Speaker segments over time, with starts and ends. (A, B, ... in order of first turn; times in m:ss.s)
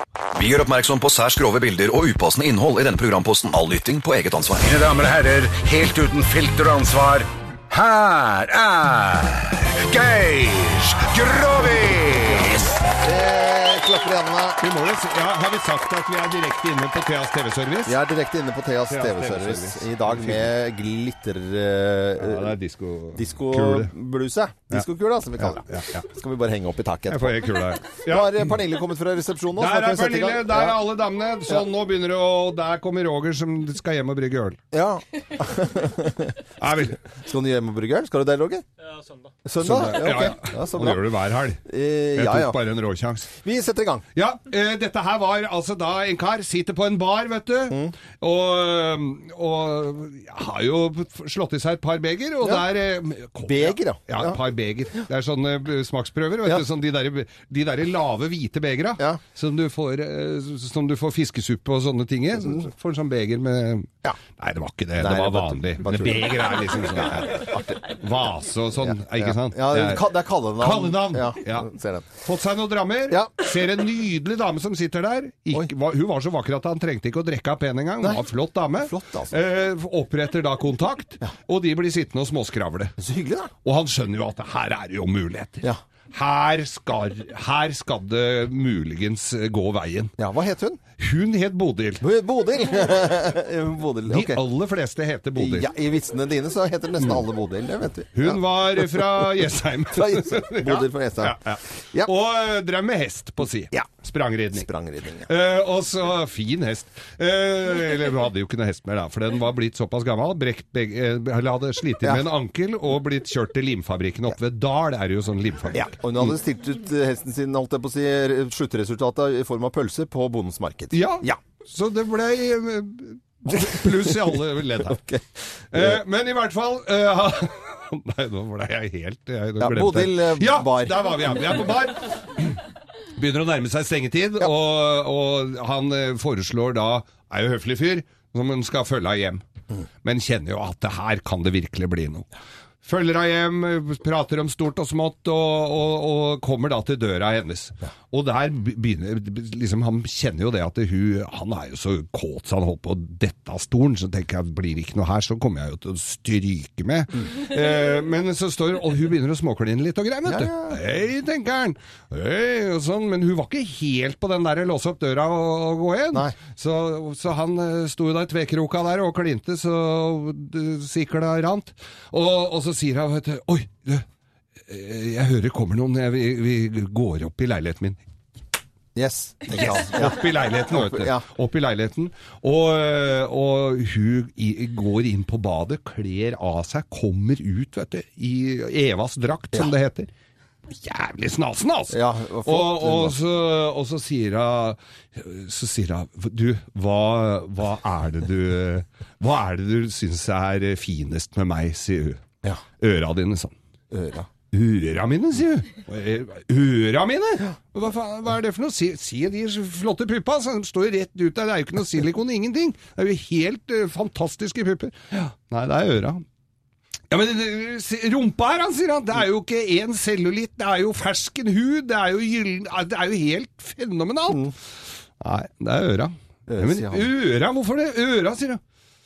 0:00.3-0:04.9 A
0:04.8-0:12.6 B
0:11.1-0:12.5 C
0:12.0-0:14.6 D
0:14.6-0:18.0 C
0:17.9-0:22.5 D
0:18.9-0:20.6 C
0:22.2-0:23.9 C
0:23.2-0:27.4 D
0:25.4-0:26.1 C
0:27.1-0:28.6 C
0:27.9-0:30.8 D
0:29.6-0:34.6 C
0:34.7-0:36.4 D
0:36.6-0:37.0 C
0:37.1-0:38.6 D
0:39.4-0:41.1 D
0:39.6-0:41.6 C
0:41.6-0:42.6 D
0:42.2-0:43.3 C
0:43.4-0:44.0 D
0:44.2-1:11.7 C
0:53.4-0:54.4 D
1:02.4-1:02.6 D
1:05.0-1:07.7 D
1:08.9-1:12.1 D
1:12.2-1:23.0 C
1:13.1-1:13.4 D
1:18.8-1:19.4 D
1:23.0-1:23.5 D
1:23.6-1:30.2 C
1:30.2-1:30.8 D
1:31.0-1:32.0 C
1:32.0-1:34.4 D
1:34.1-1:35.7 C
1:35.4-1:42.1 D
1:37.0-1:37.2 C
1:38.1-1:44.7 C
1:44.5-1:45.3 D
1:45.3-1:56.4 C
1:52.0-1:52.3 D
1:55.7-2:01.4 D
2:00.9-2:05.1 C
2:03.6-2:04.2 D
2:04.8-2:05.2 D
2:05.7-2:12.6 C
2:09.6-2:11.4 D
2:13.1-2:19.4 C
2:20.0-2:22.3 C
2:22.8-2:54.0 C
2:40.3-2:40.8 D
2:54.7-2:58.0 C
2:59.0-3:01.2 D
2:59.5-3:10.1 C
3:10.7-3:22.2 C
3:11.9-3:13.2 D
3:22.8-3:23.6 C
3:23.9-3:24.3 D
3:24.5-3:36.2 C
3:37.1-3:44.6 C
3:45.2-3:48.6 C
3:46.5-3:47.1 D